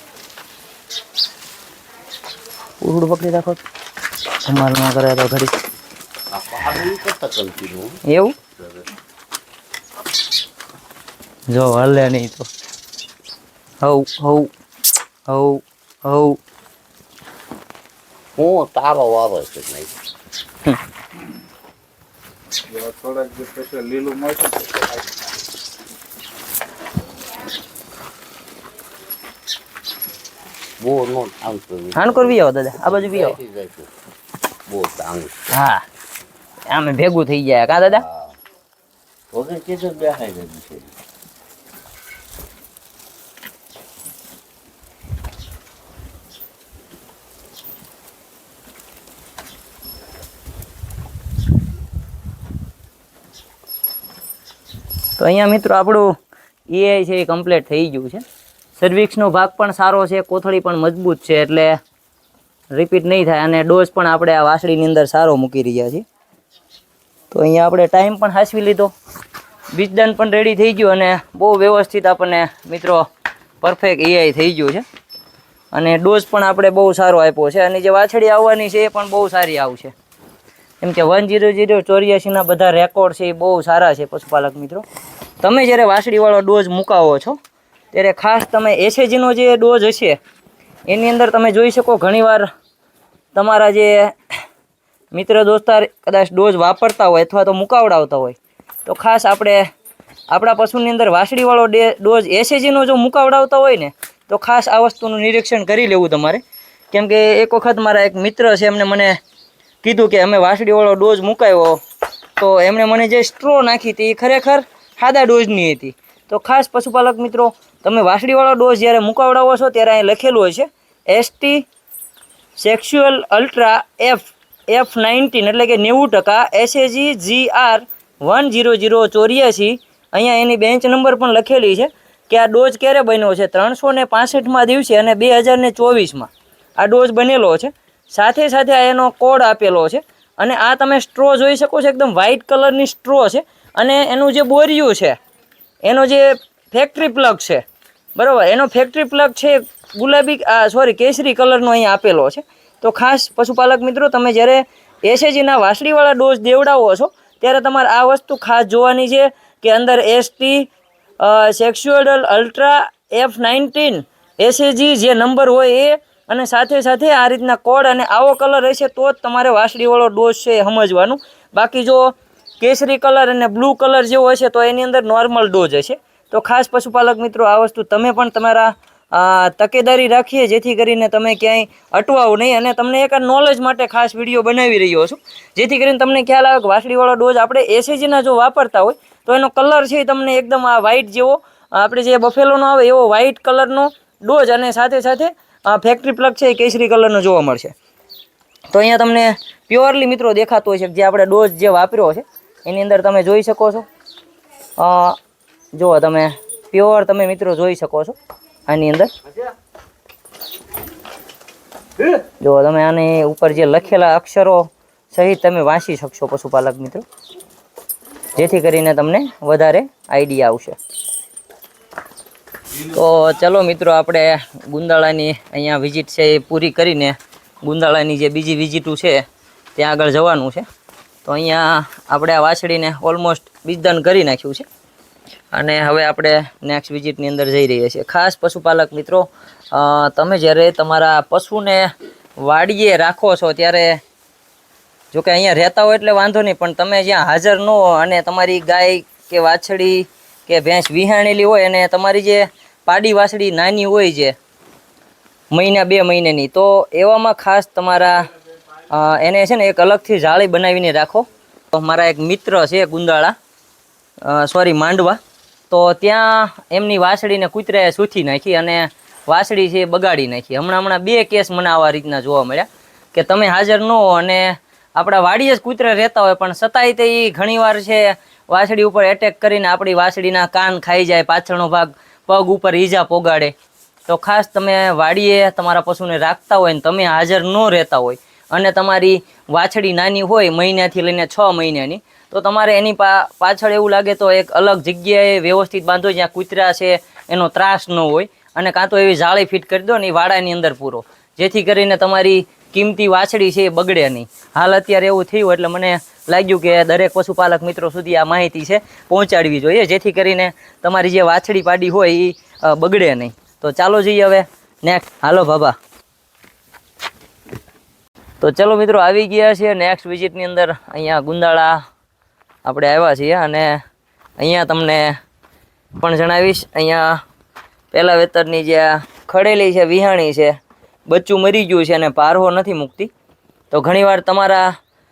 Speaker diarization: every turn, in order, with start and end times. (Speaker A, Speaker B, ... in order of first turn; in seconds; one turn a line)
Speaker A: 2.8-3.6
Speaker A: 4.4-5.5
Speaker B: 6.3-8.0
Speaker A: 8.1-8.3
Speaker B: 8.6-8.9
Speaker A: 11.5-12.5
Speaker A: 13.8-14.5
Speaker A: 15.3-16.4
Speaker B: 18.4-20.0
Speaker C: 22.7-25.0
Speaker B: 30.8-33.9
Speaker A: 31.9-33.4
Speaker B: 34.7-35.4
Speaker A: 35.5-35.9
Speaker A: 36.7-38.0
Speaker B: 37.9-38.4
Speaker B: 39.3-40.9
Speaker A: 55.2-56.1
Speaker A: 56.7-58.2
Speaker A: 58.8-61.8
Speaker A: 62.7-66.0
Speaker A: 67.3-68.9
Speaker A: 69.7-73.0
Speaker A: 73.6-74.8
Speaker A: 75.7-79.9
Speaker A: 80.8-84.8
Speaker A: 85.4-87.4
Speaker A: 87.9-90.2
Speaker A: 90.9-92.5
Speaker A: 93.3-94.1
Speaker A: 95.1-99.7
Speaker A: 100.3-109.2
Speaker A: 109.8-111.8
Speaker A: 112.4-121.7
Speaker A: 122.6-145.2
Speaker A: 145.8-147.6
Speaker A: 148.2-197.7
Speaker A: 198.7-203.8
Speaker A: 204.8-205.2
Speaker A: 205.7-208.2
Speaker A: 208.7-209.1
Speaker A: 212.4-217.1
Speaker A: 218.3-220.8
Speaker A: 222.8-229.2
Speaker A: 229.8-230.7
Speaker A: 231.2-234.7
Speaker A: 235.5-244.0
Speaker A: 245.1-254.3
Speaker A: 255.5-258.3
Speaker A: 258.9-263.4
Speaker A: 264.2-265.2
Speaker A: 265.7-283.5
Speaker A: 284.1-315.8
Speaker A: 318.4-321.8
Speaker A: 322.7-323.8
Speaker A: 324.4-325.2
Speaker A: 326.0-327.2
Speaker A: 327.9-330.6
Speaker A: 331.1-333.1
Speaker A: 333.7-334.7